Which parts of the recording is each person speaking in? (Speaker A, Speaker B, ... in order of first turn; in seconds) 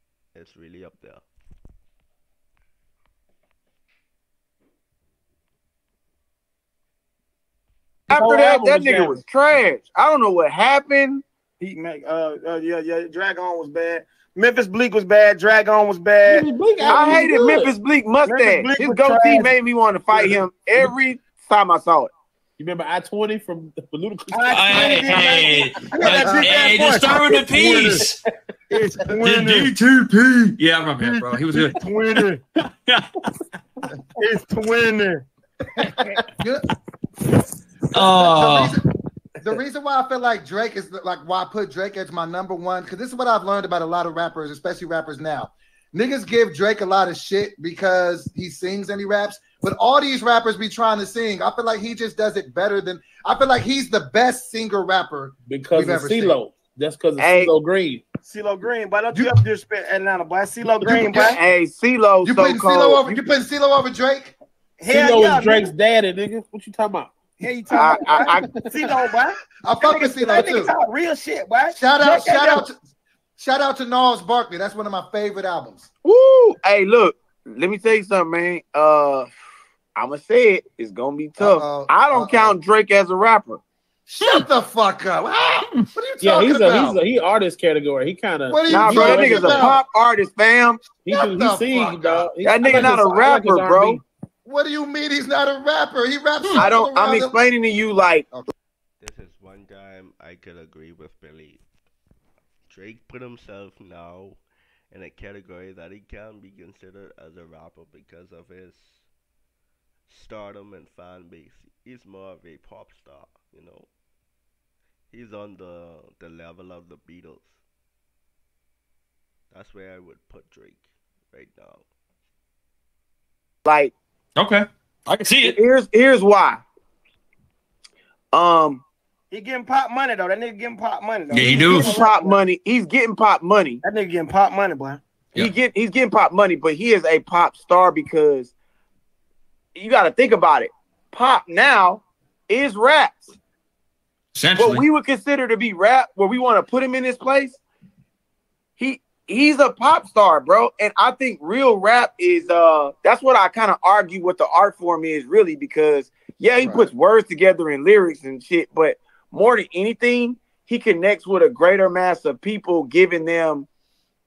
Speaker A: 0.3-1.2, 99.0-101.6, 102.7-104.4, 104.9-109.0, 110.1-113.9, 115.1-117.6, 119.5-121.8
Speaker B: 8.1-11.2, 16.9-22.1, 57.2-57.5, 61.1-63.2, 67.8-68.6, 76.0-79.3, 80.0-83.6, 88.7-90.8, 92.4-94.0, 96.6-98.3, 123.6-123.9, 125.4-126.6, 128.3-128.8, 131.3-133.8, 135.3-138.5, 139.8-143.3, 144.6-147.6, 148.8-163.7
Speaker C: 8.1-9.1, 16.2-17.7, 22.6-25.4, 26.0-26.6, 55.5-58.0, 64.9-67.1, 68.1-68.5, 86.2-89.8, 91.0-94.0
Speaker D: 8.1-9.2, 11.6-17.7, 18.2-19.5, 24.3-28.1, 28.7-29.7, 31.0-32.4, 34.2-35.2, 58.2-61.4, 64.8-65.7, 67.4-72.6, 129.3-132.4, 133.8-135.0
Speaker E: 24.5-28.2, 29.1-31.8, 32.6-33.2, 37.9-38.8, 124.3-125.6, 131.3-132.0, 144.3-144.8
Speaker F: 36.4-36.6, 38.0-38.8, 39.4-56.4, 60.8-61.4, 62.2-64.3, 69.6-70.7, 71.7-72.8, 73.4-75.9, 81.4-82.5, 84.1-87.0, 88.5-89.8, 90.9-92.3, 94.4-97.4, 156.6-156.9